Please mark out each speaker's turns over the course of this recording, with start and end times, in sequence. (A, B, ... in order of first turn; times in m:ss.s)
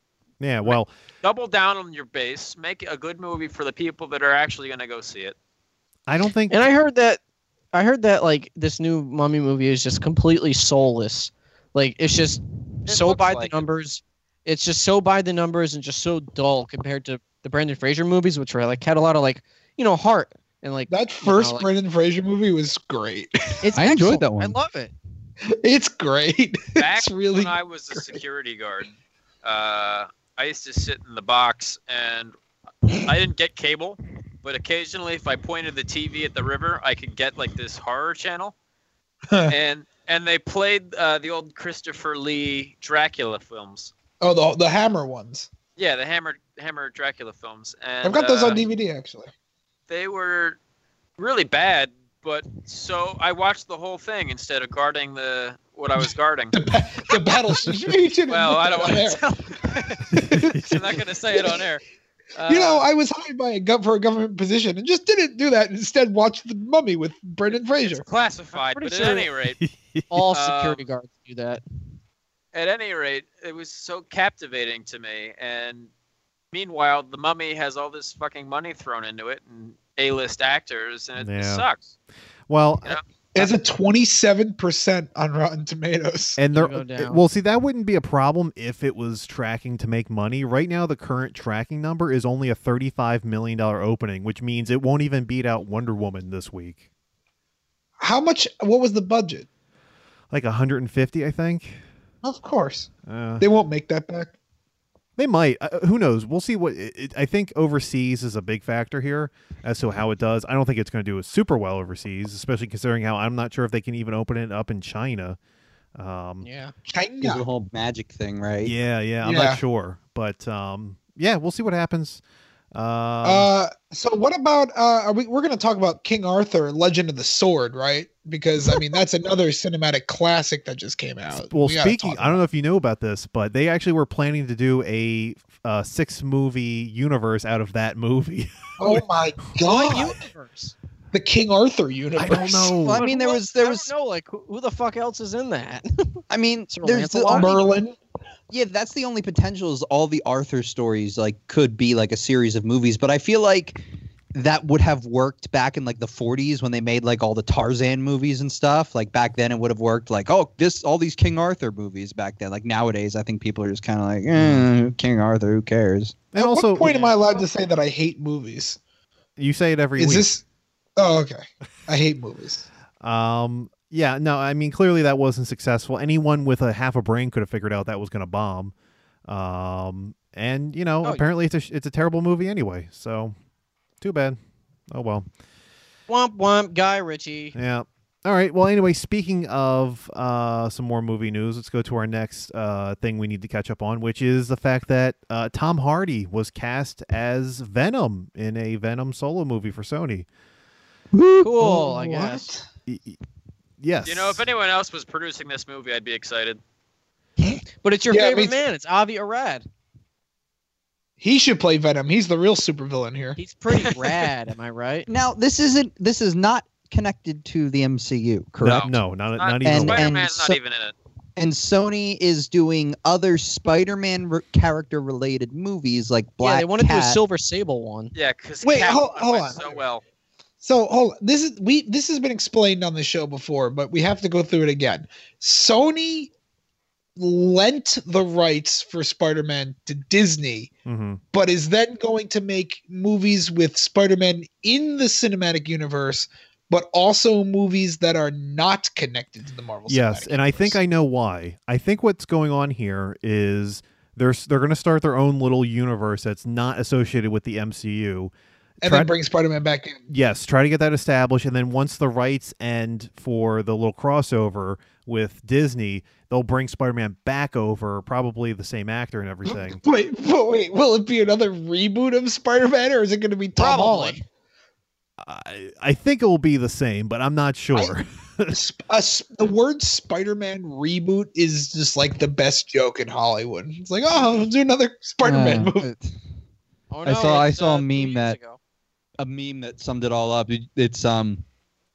0:00.4-0:00.9 A
0:00.6-0:05.3 B
0:06.1-0:06.6 A
0:06.5-0:07.2 C
0:07.7-0:21.7 C
0:12.9-0:13.6 B
0:20.9-0:23.6 D
0:23.6-0:24.9 C
0:23.7-0:24.6 E
0:25.6-0:28.2 D
0:26.8-0:32.3 B
0:32.9-0:38.5 B
0:39.5-0:43.9 B
0:44.2-0:45.5 D
0:45.8-0:48.6 B
0:48.0-0:49.3 D
0:49.9-0:50.6 B
0:51.2-0:56.6 B
0:56.5-0:59.2 D
0:58.3-1:01.8 B
1:00.1-1:00.6 D
1:00.1-1:00.8 A
1:01.3-1:01.6 D
1:02.4-1:02.9 B
1:02.5-1:08.0 D
1:07.5-1:09.6 B
1:08.7-1:09.3 C
1:09.6-1:10.1 A
1:10.1-1:11.6 C
1:10.3-1:10.8 B
1:12.5-1:15.9 B
1:16.5-1:21.9 B
1:21.2-1:21.6 A
1:22.5-1:23.4 A
1:23.3-1:26.4 D
1:26.4-1:36.8 A
1:26.5-1:27.2 C
1:38.0-1:39.4 D
1:40.3-1:41.8 A
1:42.2-1:44.3 D
1:43.1-1:43.4 A
1:45.2-1:55.4 A
1:55.9-1:56.5 A
1:56.4-1:56.7 C
1:56.9-1:57.4 D
1:57.2-1:58.7 E
1:58.6-2:02.2 A
1:59.2-1:59.6 D
2:02.7-2:03.5 A
2:03.2-2:12.4 D
2:11.3-2:19.0 A
2:18.8-2:20.1 D
2:19.6-2:20.7 C
2:21.1-2:22.8 D
2:22.2-2:23.0 A
2:22.7-2:23.9 E
2:22.9-2:27.6 C
2:26.3-2:27.6 E
2:27.3-2:28.0 D
2:28.5-2:46.3 E
2:44.3-2:44.6 A
2:46.3-2:47.0 A
2:46.3-2:48.8 D
2:46.8-2:47.1 C
2:49.4-2:50.3 A
2:50.0-2:50.4 D
2:51.0-2:52.7 D
2:53.0-2:58.7 A
2:59.2-3:03.3 A
3:04.0-3:04.4 A
3:04.9-3:05.3 A
3:06.1-3:07.5 C
3:07.5-3:20.3 A
3:21.1-3:21.5 E
3:21.4-3:22.4 C
3:21.6-3:22.6 D
3:22.9-3:23.2 A
3:23.8-3:24.4 A
3:24.0-3:26.6 B
3:27.4-3:28.6 D
3:27.8-3:29.6 C
3:31.2-3:33.4 D
3:33.4-3:35.1 C
3:35.1-3:38.9 E
3:38.6-3:40.1 A
3:38.7-3:40.9 B
3:39.6-3:40.6 E
3:41.4-3:47.2 E
3:46.4-3:48.1 C
3:48.1-3:50.0 B
3:48.6-3:49.8 D
3:50.6-3:56.3 D
3:57.2-4:00.7 D
4:00.8-4:01.2 A
4:01.3-4:10.8 D
4:09.9-4:19.1 A
4:18.8-4:20.0 D
4:20.1-4:29.8 A
4:29.5-4:34.2 D
4:33.6-4:34.2 C
4:35.2-4:38.6 A
4:38.5-4:45.9 D
4:45.2-4:46.2 E
4:46.9-4:48.6 C
4:47.0-4:48.4 E
4:49.2-4:51.4 E